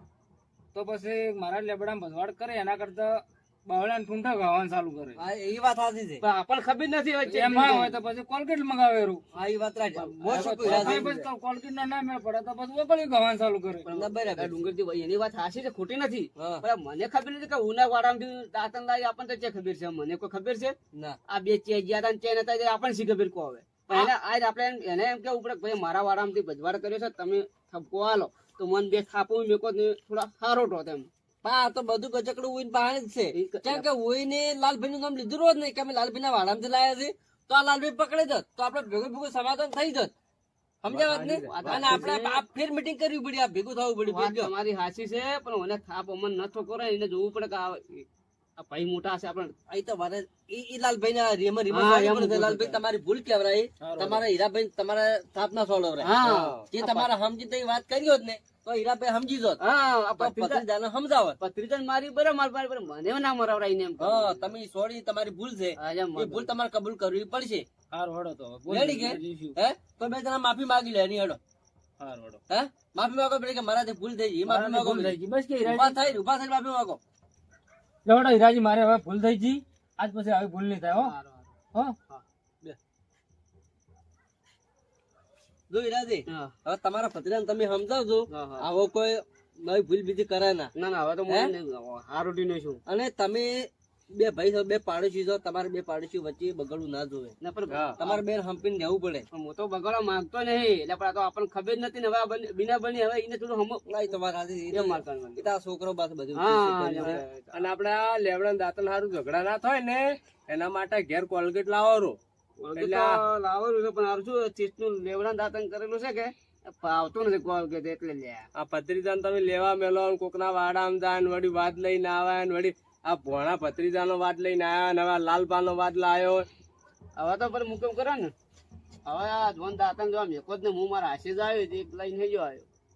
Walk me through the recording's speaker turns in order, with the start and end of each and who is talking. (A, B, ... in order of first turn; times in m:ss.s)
0:00.8-0:05.2 A
0:05.2-0:06.2 B
0:06.2-0:08.0 C
0:07.2-0:09.2 A
0:09.3-0:11.2 B
0:09.9-0:11.2 C
0:10.3-0:13.9 A
0:13.8-0:20.8 C
0:13.9-0:14.7 B
0:16.4-0:16.6 B
0:21.3-0:31.1 C
0:31.4-0:40.1 B
0:33.3-0:33.9 C
0:40.8-0:44.5 B
0:40.9-0:42.1 D
0:41.4-0:42.4 C
0:44.0-0:48.1 C
0:48.6-0:49.5 C
0:49.7-0:59.6 B
0:51.7-0:52.8 C
0:53.9-0:54.2 A
0:56.0-0:57.1 C
0:56.2-0:56.7 D
0:59.6-1:00.7 C
1:00.2-1:01.4 B
1:01.4-1:04.5 C
1:04.0-1:07.7 B
1:05.8-1:06.5 C
1:07.9-1:09.6 A
1:08.7-1:11.4 B
1:12.0-1:12.4 A
1:12.5-1:17.0 B
1:14.5-1:16.0 A
1:18.0-1:21.1 A
1:20.9-1:21.6 C
1:25.7-1:30.7 B
1:26.3-1:26.5 C
1:28.3-1:28.7 C
1:30.8-1:32.8 C
1:31.3-1:31.5 B
1:32.9-1:37.4 B
1:37.4-1:38.2 C
1:37.7-1:38.0 D
1:38.0-1:39.3 B
1:39.3-1:43.9 C
1:43.9-1:47.2 B
1:44.7-1:45.5 C
1:46.3-1:47.7 C
1:47.0-1:52.2 D
1:52.6-1:58.5 C
1:52.8-1:53.2 D
1:58.6-2:06.5 D
2:07.2-2:08.3 C
2:09.1-2:12.7 C